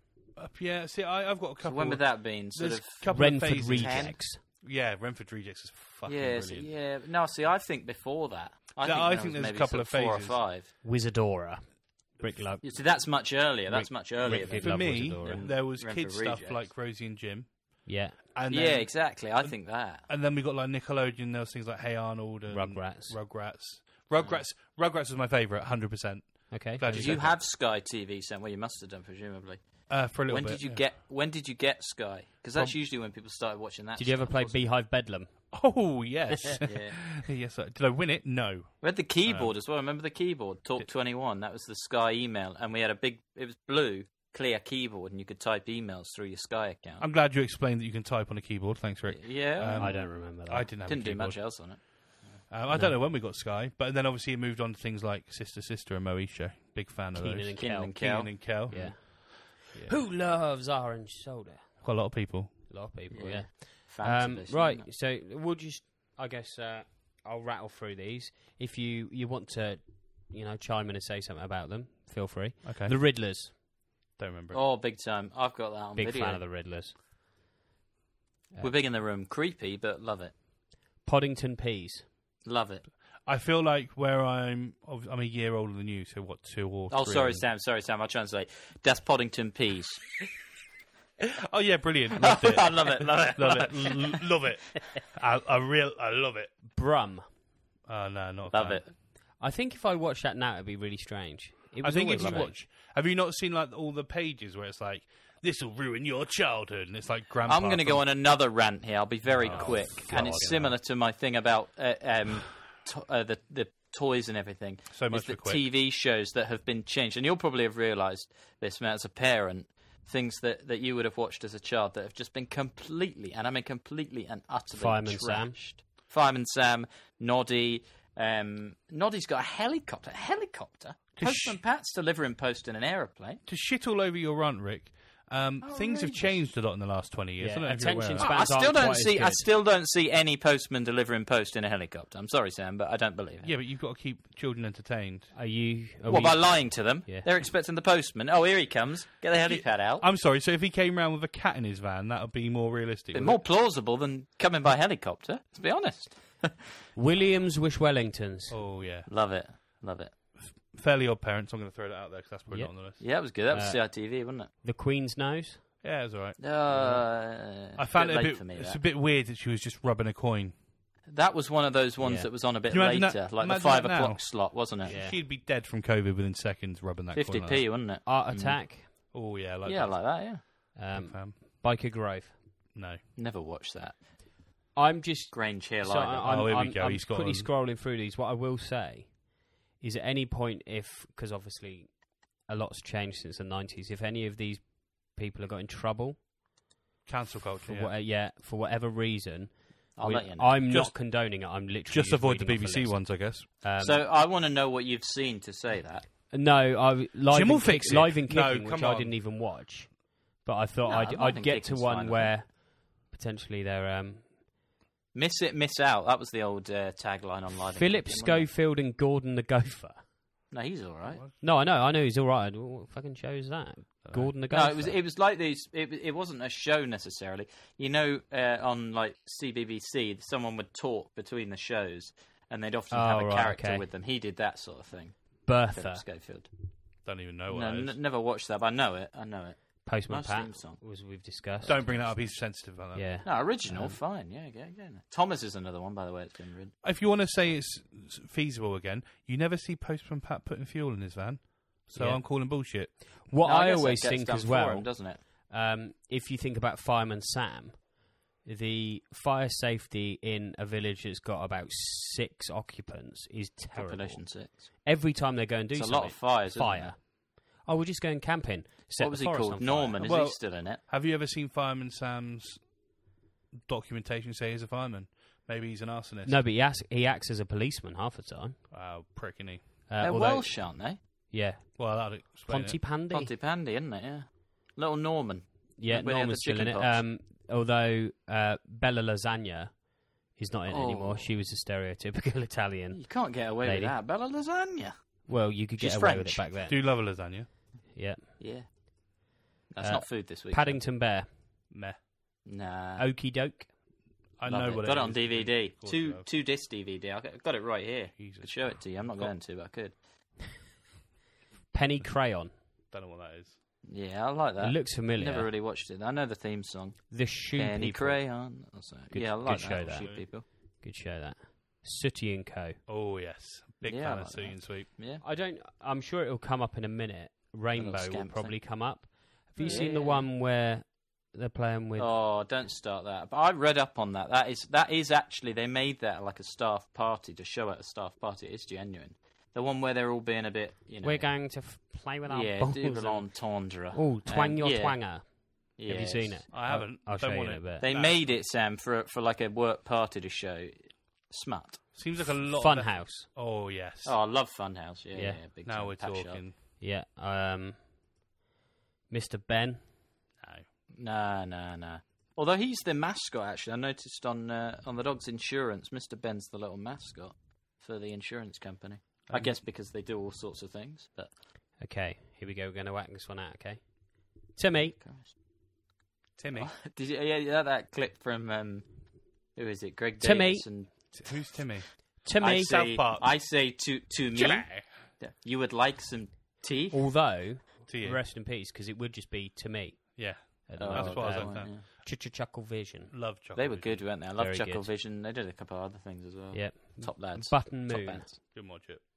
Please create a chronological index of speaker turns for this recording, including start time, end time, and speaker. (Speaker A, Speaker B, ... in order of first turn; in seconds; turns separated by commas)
Speaker A: 0.4-6.7, Speaker B: 1.6-4.2, Speaker C: 3.1-4.4, Speaker B: 6.1-10.7, Speaker A: 8.8-10.4, Speaker C: 10.8-15.5, Speaker B: 12.6-16.7, Speaker A: 14.2-27.4, Speaker C: 17.9-18.2, Speaker B: 18.5-20.1, Speaker C: 22.5-23.2, Speaker B: 24.2-24.4, Speaker C: 26.5-27.3, Speaker B: 26.9-34.6, Speaker A: 29.9-30.8, Speaker C: 34.0-35.6, Speaker A: 35.5-39.5, Speaker B: 36.6-37.1, Speaker B: 38.8-47.1, Speaker A: 47.0-51.8, Speaker B: 49.1-50.2, Speaker C: 49.8-50.7, Speaker B: 50.9-52.5, Speaker A: 52.5-60.0, Speaker C: 52.7-53.0, Speaker C: 57.1-62.1, Speaker B: 57.6-58.9, Speaker A: 61.8-62.7, Speaker C: 62.7-73.5, Speaker B: 63.1-64.9, Speaker A: 72.6-73.0, Speaker A: 74.2-74.6, Speaker B: 74.5-76.5, Speaker C: 76.0-77.0, Speaker B: 78.6-80.3, Speaker C: 81.0-82.1, Speaker B: 82.4-82.9, Speaker A: 83.2-87.5, Speaker B: 86.9-90.0, Speaker A: 91.2-96.6, Speaker B: 92.2-94.2, Speaker C: 96.7-97.2, Speaker A: 97.9-98.8, Speaker B: 98.5-98.9, Speaker C: 99.4-102.6, Speaker A: 101.8-108.1, Speaker B: 102.2-102.5, Speaker B: 107.5-133.4, Speaker A: 109.4-110.7, Speaker C: 109.4-110.7, Speaker A: 114.9-115.6, Speaker C: 124.7-125.6, Speaker A: 131.2-131.6, Speaker A: 133.5-138.4, Speaker B: 135.6-136.4, Speaker C: 137.4-139.5, Speaker B: 138.2-143.6, Speaker A: 143.4-145.3, Speaker C: 145.3-147.3, Speaker B: 146.1-150.1, Speaker A: 149.4-153.4, Speaker B: 153.1-156.6, Speaker C: 156.9-158.6, Speaker A: 158.5-159.1, Speaker B: 159.1-160.1, Speaker A: 160.3-163.0, Speaker C: 162.5-165.7, Speaker B: 163.0-164.5, Speaker A: 165.8-166.9, Speaker B: 166.4-168.8, Speaker C: 166.7-167.0, Speaker A: 167.8-170.5, Speaker B: 171.1-175.0, Speaker C: 172.0-172.3, Speaker A: 172.7-177.7, Speaker C: 174.9-175.2, Speaker B: 177.1-179.1, Speaker C: 178.1-178.9, Speaker A: 179.1-180.2, Speaker B: 179.7-180.7, Speaker C: 180.7-182.4, Speaker A: 180.9-181.4, Speaker A: 182.7-183.0, Speaker B: 183.2-184.1, Speaker C: 184.7-196.2, Speaker B: 185.3-186.5, Speaker A: 186.2-187.5, Speaker A: 197.1-197.9, Speaker C: 197.6-204.0, Speaker B: 200.0-200.6, Speaker A: 200.7-203.5, Speaker B: 203.8-206.1, Speaker C: 206.3-214.4, Speaker A: 207.3-209.2, Speaker B: 210.8-212.3, Speaker B: 215.1-218.5, Speaker C: 217.7-220.1, Speaker B: 220.5-221.2, Speaker A: 221.1-221.4, Speaker C: 221.4-225.0, Speaker A: 224.0-224.3, Speaker B: 224.5-236.7, Speaker C: 232.9-233.9, Speaker C: 235.4-236.1, Speaker A: 237.0-238.0, Speaker B: 237.5-240.8, Speaker C: 239.8-242.3, Speaker A: 241.6-243.2, Speaker C: 242.9-244.0, Speaker B: 243.2-246.7, Speaker A: 246.8-253.1, Speaker C: 251.9-270.0, Speaker B: 253.4-255.2, Speaker B: 263.7-264.9, Speaker B: 265.7-267.0, Speaker B: 269.0-270.8, Speaker A: 270.0-272.8, Speaker A: 273.7-276.4, Speaker C: 276.2-278.6, Speaker A: 278.7-279.7, Speaker C: 279.9-283.3, Speaker B: 280.0-281.0, Speaker A: 281.8-282.8, Speaker B: 283.1-287.0, Speaker C: 285.8-294.0, Speaker B: 290.7-291.3, Speaker B: 292.9-296.5, Speaker C: 295.3-297.1, Speaker A: 296.7-297.5, Speaker C: 297.9-298.3, Speaker B: 298.4-298.7, Speaker B: 299.7-300.8, Speaker C: 299.8-301.3, Speaker A: 301.7-302.0, Speaker B: 302.4-303.1, Speaker C: 303.0-303.7, Speaker A: 304.4-306.3, Speaker B: 304.5-310.0, Speaker A: 308.2-309.4, Speaker C: 311.7-312.6, Speaker A: 312.6-313.6, Speaker B: 313.8-320.4, Speaker C: 314.6-315.5, Speaker C: 317.1-322.8, Speaker A: 319.5-320.3, Speaker A: 322.9-324.9, Speaker B: 323.8-325.2, Speaker C: 325.2-332.1, Speaker B: 327.8-328.8, Speaker A: 329.6-329.9, Speaker B: 329.6-330.3, Speaker B: 332.0-341.6, Speaker C: 341.0-347.8, Speaker B: 342.3-346.5, Speaker A: 346.5-348.3, Speaker B: 347.8-351.9, Speaker A: 351.9-354.2, Speaker C: 352.5-353.3, Speaker B: 354.0-356.4, Speaker C: 355.1-355.4, Speaker A: 355.6-356.6, Speaker C: 356.8-357.9, Speaker C: 359.1-359.9, Speaker A: 360.4-360.7, Speaker B: 360.9-371.4, Speaker A: 369.3-369.6, Speaker C: 371.8-375.0, Speaker B: 374.9-375.3, Speaker A: 376.4-376.7, Speaker B: 376.5-381.6, Speaker C: 380.2-380.7, Speaker A: 381.1-383.4, Speaker C: 382.2-382.8, Speaker B: 382.4-387.1, Speaker A: 384.3-384.9, Speaker C: 386.9-393.1, Speaker A: 387.9-388.2, Speaker A: 390.2-391.8, Speaker B: 390.8-391.8, Speaker A: 393.1-394.1, Speaker B: 393.6-398.6, Speaker C: 394.4-394.9, Speaker C: 396.5-398.3, Speaker A: 398.5-399.1